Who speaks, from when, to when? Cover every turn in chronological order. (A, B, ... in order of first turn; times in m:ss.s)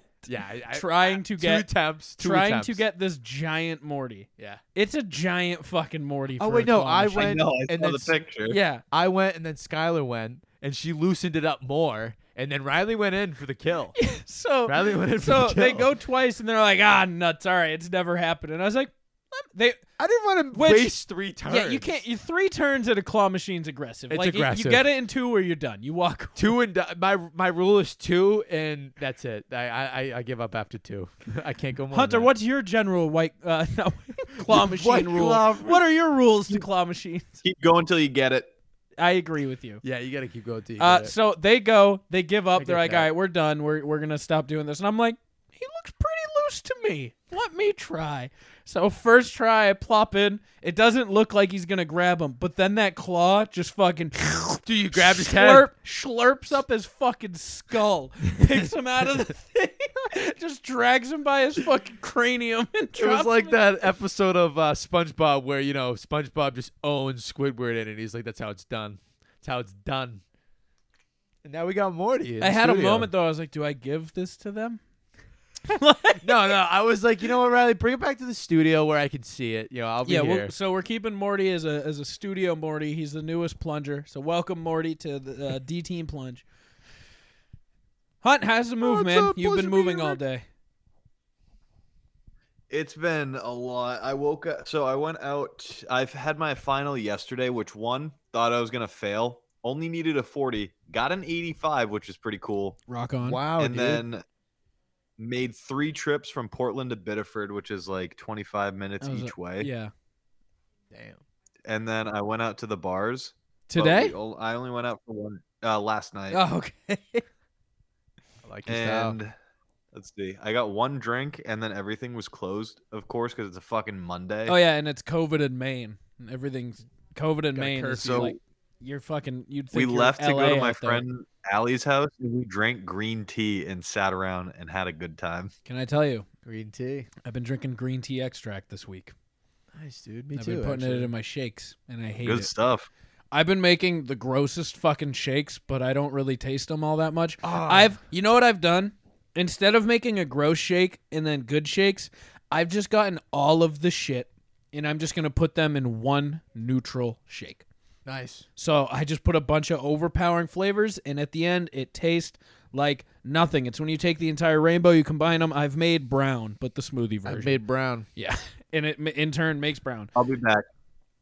0:00.2-0:02.8 A
0:00.7-0:07.5 B
0:04.4-0:04.6 A
0:06.4-0:08.1 A
0:07.1-0:08.6 C
0:08.5-0:08.8 B
0:08.9-0:13.9 A
0:14.0-0:19.8 B
0:14.7-0:15.9 A
0:20.0-0:22.0 A
0:20.5-0:26.6 B
0:24.1-0:24.9 A
0:26.4-0:32.3 A
0:31.9-0:37.3 B
0:34.4-0:35.8 A
0:37.4-0:38.5 C
0:39.0-0:39.8 B
0:39.8-0:41.1 A
0:40.8-1:03.9 B
0:42.5-0:43.1 A
0:54.6-0:55.7 A
1:03.0-1:10.2 A
1:11.4-1:13.1 A
1:12.4-1:14.8 B
1:15.7-1:16.6 B
1:16.2-1:20.5 A
1:20.0-1:26.4 B
1:28.2-1:30.4 B
1:28.8-1:30.2 A
1:32.7-1:42.8 C
1:42.9-1:43.4 B
1:43.2-1:44.0 A
1:43.6-1:44.2 C
1:45.2-1:49.7 C
1:49.0-1:49.9 B
1:50.9-1:51.2 A
1:51.6-1:56.4 C
1:53.7-1:54.1 B
1:56.3-1:57.2 B
1:58.4-1:59.2 A
1:58.7-1:59.3 C
1:59.9-2:04.6 C
2:04.4-2:11.0 B
2:07.5-2:08.4 A
2:08.0-2:08.4 C
2:09.7-2:15.5 C
2:15.6-2:16.2 B
2:16.4-2:17.1 A
2:17.2-2:19.1 B
2:19.7-2:21.1 A
2:20.3-2:22.5 B
2:22.2-2:22.9 C
2:23.3-2:37.6 B
2:27.4-2:28.0 A
2:38.0-2:38.4 A
2:38.6-2:47.6 B
2:47.2-2:48.1 A
2:48.2-2:50.1 B
2:50.1-2:50.6 C